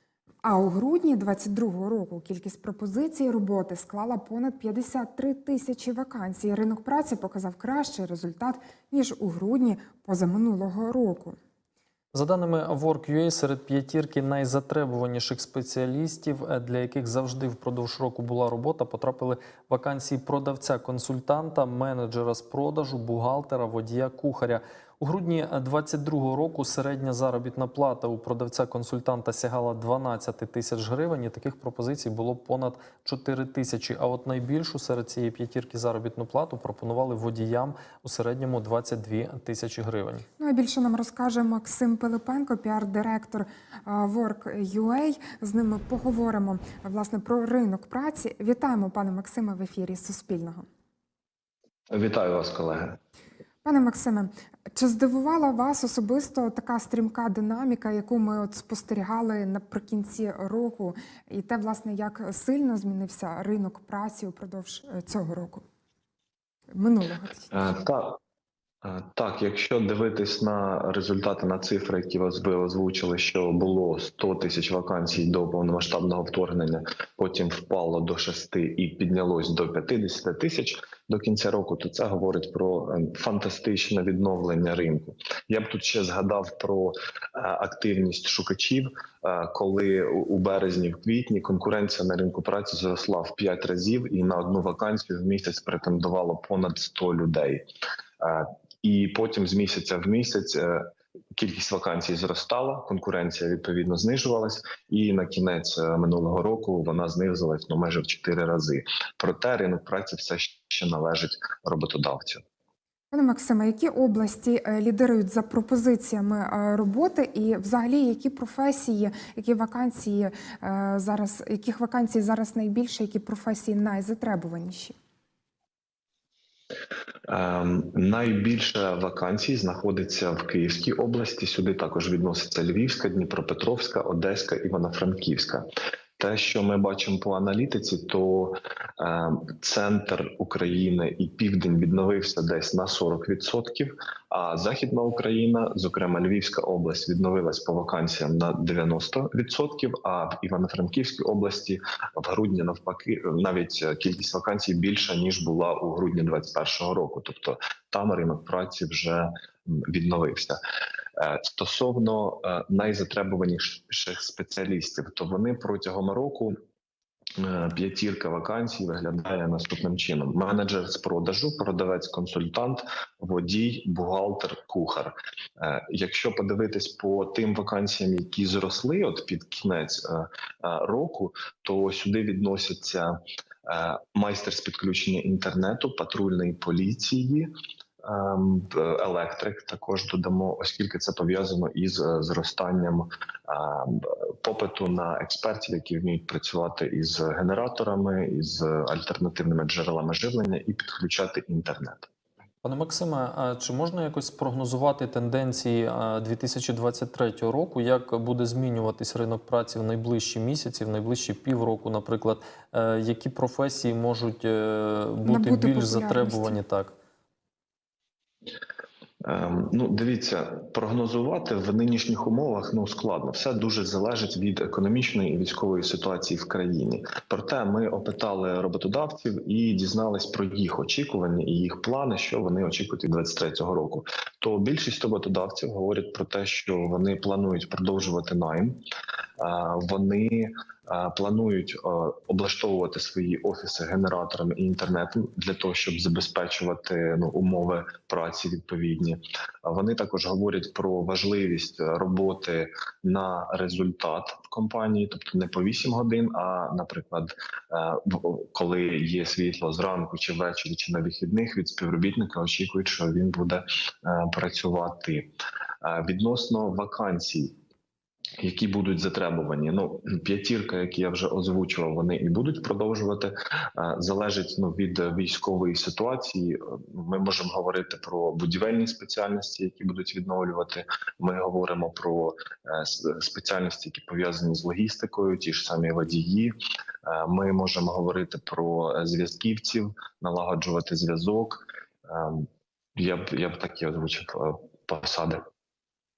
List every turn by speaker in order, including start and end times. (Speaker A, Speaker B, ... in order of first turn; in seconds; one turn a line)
Speaker A: 0.4-11.4
Speaker B: 12.1-40.2
Speaker A: 40.4-50.7
Speaker C: 51.9-53.0
Speaker A: 53.6-65.6
Speaker A: 66.7-67.8
Speaker C: 67.5-68.2
Speaker C: 68.8-97.6
Speaker C: 98.2-112.4
Speaker A: 113.1-125.0
Speaker C: 127.3-135.7
Speaker C: 136.2-160.6
Speaker C: 161.2-166.5
Speaker C: 167.4-183.2
Speaker C: 183.7-187.5
Speaker C: 188.1-202.1
Speaker B: 202.6-216.9
Speaker A: 215.2-216.6
Speaker C: 219.2-238.8
Speaker C: 239.4-265.3
Speaker C: 265.8-267.6
Speaker C: 268.4-286.5
Speaker C: 287.1-295.4